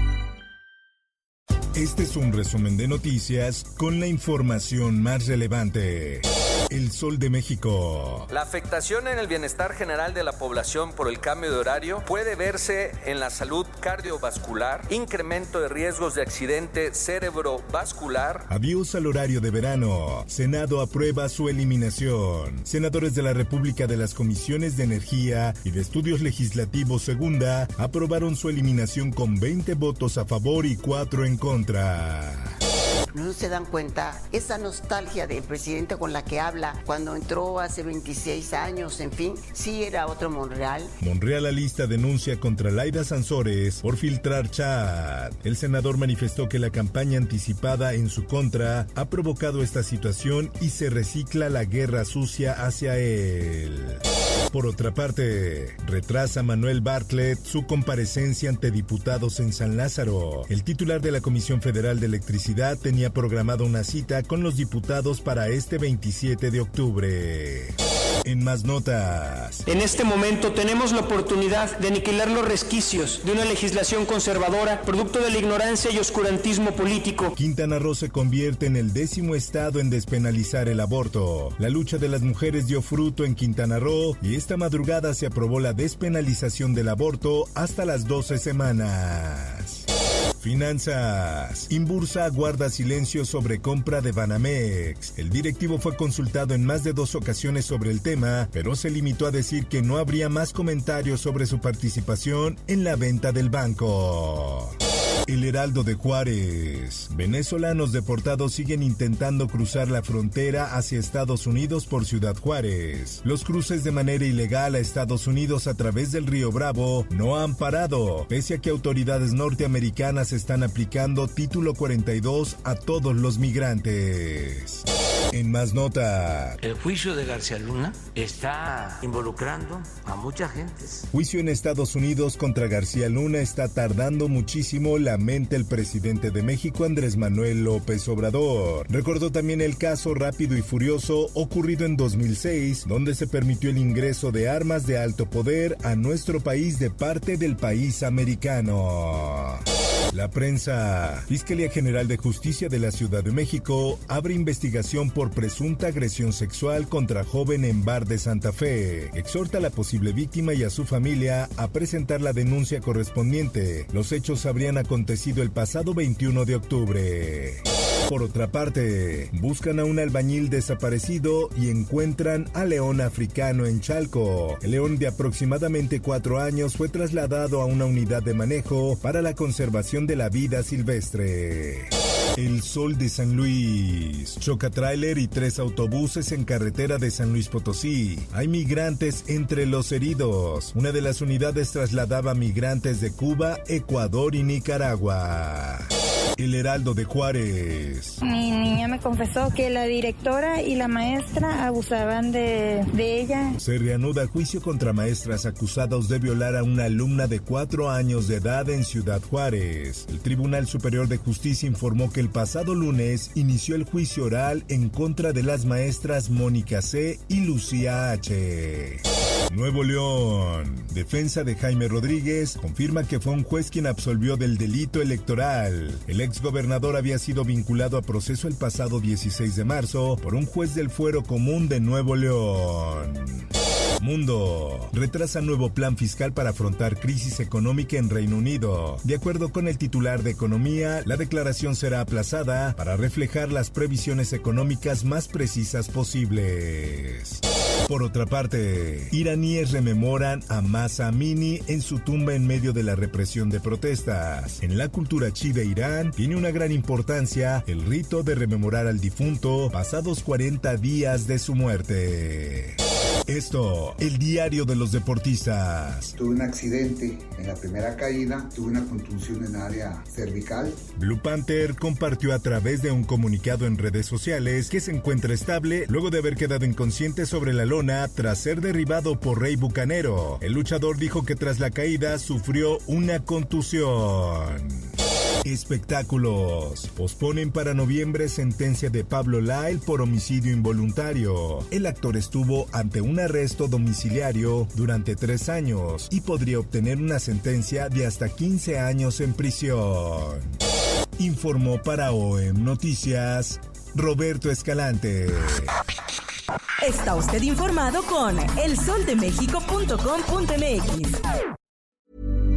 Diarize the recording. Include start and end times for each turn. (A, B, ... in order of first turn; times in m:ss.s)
0:01.7-0:08.3 A
0:08.3-0:18.4 B
0:18.5-0:32.6 A
0:33.1-0:40.9 C
0:41.0-1:09.6 A
1:09.7-1:17.3 D
1:17.4-1:29.8 A
1:30.4-1:44.8 A
1:45.3-2:06.6 A
2:06.6-2:11.1 E
2:11.1-3:18.2 A
3:18.2-3:23.6 F
3:23.6-3:53.5 A
3:54.0-4:26.2 A
4:26.2-4:30.8 G
4:31.0-4:44.9 A
4:45.4-5:00.6 A
5:01.2-5:05.7 A
5:06.8-5:11.2 H